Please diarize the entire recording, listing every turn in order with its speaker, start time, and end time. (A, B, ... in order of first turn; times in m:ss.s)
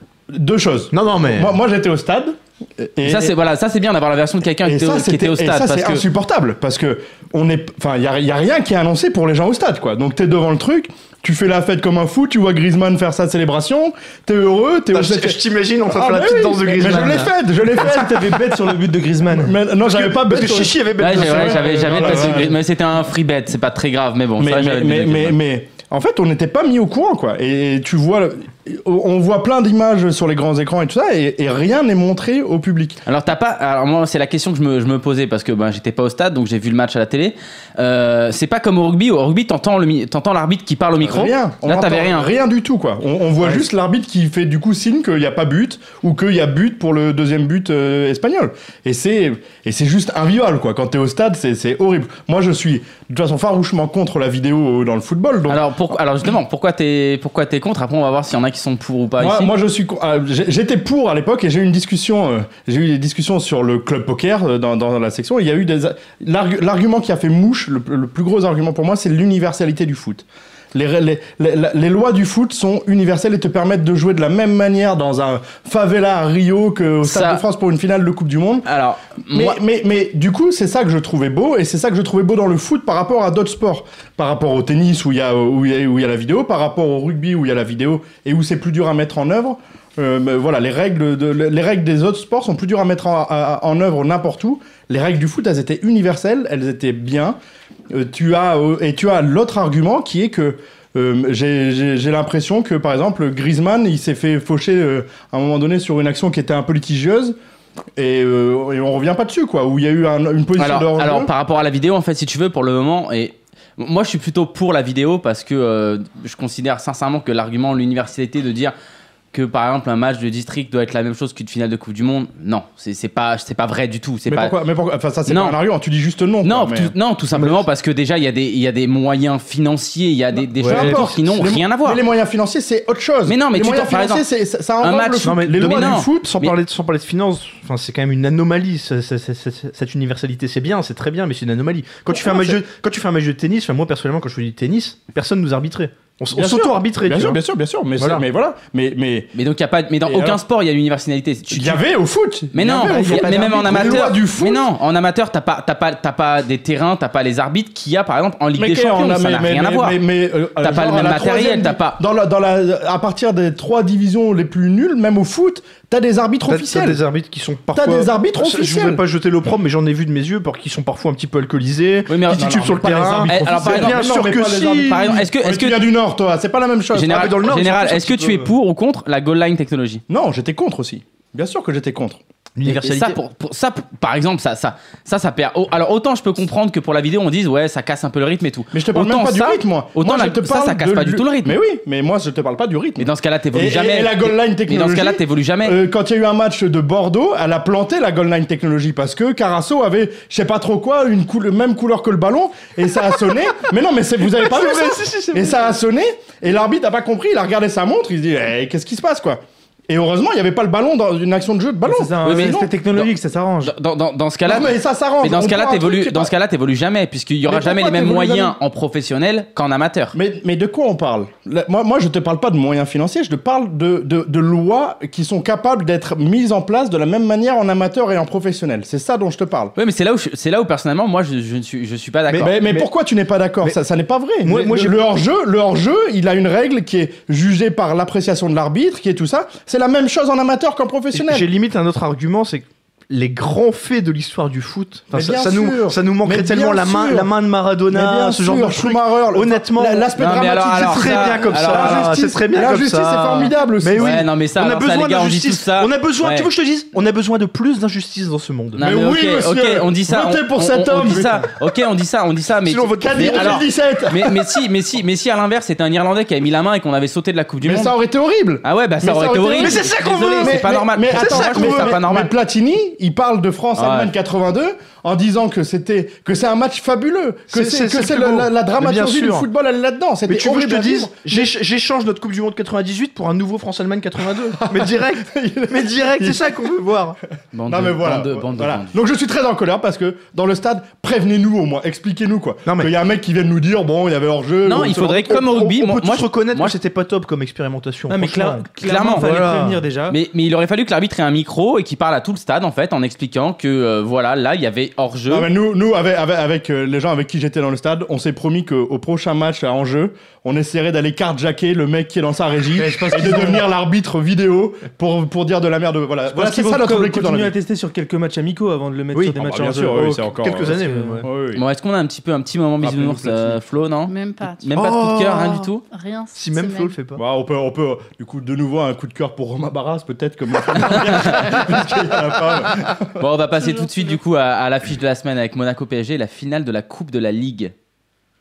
0:00.3-0:03.3 A
0:00.9-0:01.5 B
0:03.0-0:06.0 C
0:04.6-0:22.5 A
0:14.9-0:18.4 B
0:18.6-0:19.5 D
0:19.9-0:22.5 B
0:21.0-0:25.4 C
0:24.4-0:33.0 A
0:33.1-0:42.3 C
0:41.0-0:55.9 A
0:55.5-0:59.5 C
0:59.2-1:18.6 A
1:17.0-1:17.4 C
1:18.6-1:19.6 C
1:19.3-1:37.4 A
1:37.9-1:47.4 A
1:48.0-1:51.3 A
1:50.6-1:58.7 C
1:59.3-2:04.6 C
2:04.3-2:06.9 A
2:05.3-2:05.6 C
2:06.4-2:12.0 C
2:07.4-2:07.6 B
2:10.6-2:11.3 B
2:10.6-2:16.3 A
2:13.3-2:14.2 C
2:14.8-2:16.6 C
2:15.2-2:27.4 B
2:22.1-2:22.6 A
2:26.3-2:29.3 A
2:28.0-2:28.2 B
2:29.3-2:31.8 C
2:30.0-2:30.4 A
2:31.5-2:34.7 A
2:32.5-2:40.0 C
2:38.6-2:47.0 A
2:40.6-2:42.0 C
2:46.5-2:55.2 B
2:47.8-2:49.0 A
2:52.1-2:54.1 C
2:52.3-2:57.4 A
2:54.9-2:55.9 C
2:56.9-3:00.0 C
2:57.1-2:58.5 B
3:00.1-3:02.2 A
3:02.6-3:03.2 B
3:02.6-3:11.6 C
3:08.7-3:32.8 A
3:13.0-3:15.8 C
3:24.2-3:25.8 B
3:31.9-3:33.7 D
3:32.2-3:33.1 C
3:33.6-3:40.2 C
3:34.5-3:36.3 A
3:37.5-3:38.6 A
3:40.1-3:49.7 A
3:49.8-3:52.6 C
3:52.3-4:01.5 A
3:52.6-3:52.9 B
3:54.4-3:55.0 B
4:01.1-4:18.8 B
4:05.1-4:07.3 A
4:07.9-4:14.2 A
4:10.2-4:12.2 C
4:14.0-4:16.5 C
4:18.8-4:27.9 C
4:18.8-4:21.6 A
4:22.6-4:23.7 B
4:23.0-4:24.5 A
4:27.6-4:41.5 A
4:28.6-4:32.3 C
4:29.6-4:32.0 B
4:33.8-4:34.1 C
4:37.5-4:39.5 B
4:40.3-4:47.2 B
4:44.6-4:46.6 A
4:47.5-4:49.0 C
4:47.7-4:55.2 A
4:52.7-4:52.9 B
4:54.6-4:56.8 C
4:54.7-4:58.7 B
4:58.1-5:00.2 D
4:58.8-4:59.4 C
4:59.2-4:59.8 B
5:00.1-5:05.5 C
5:05.3-5:17.5 A
5:12.8-5:13.6 D
5:16.3-5:21.2 D
5:19.1-5:19.4 B
5:19.4-5:21.6 A
5:19.9-5:21.3 B
5:21.5-5:25.8 C
5:22.8-5:23.6 A
5:24.1-5:24.7 E
5:24.8-5:25.7 B
5:25.9-5:26.9 E
5:26.4-5:27.2 B
5:27.2-5:33.2 A
5:30.9-5:31.6 C
5:33.2-5:37.7 C
5:33.6-5:34.2 E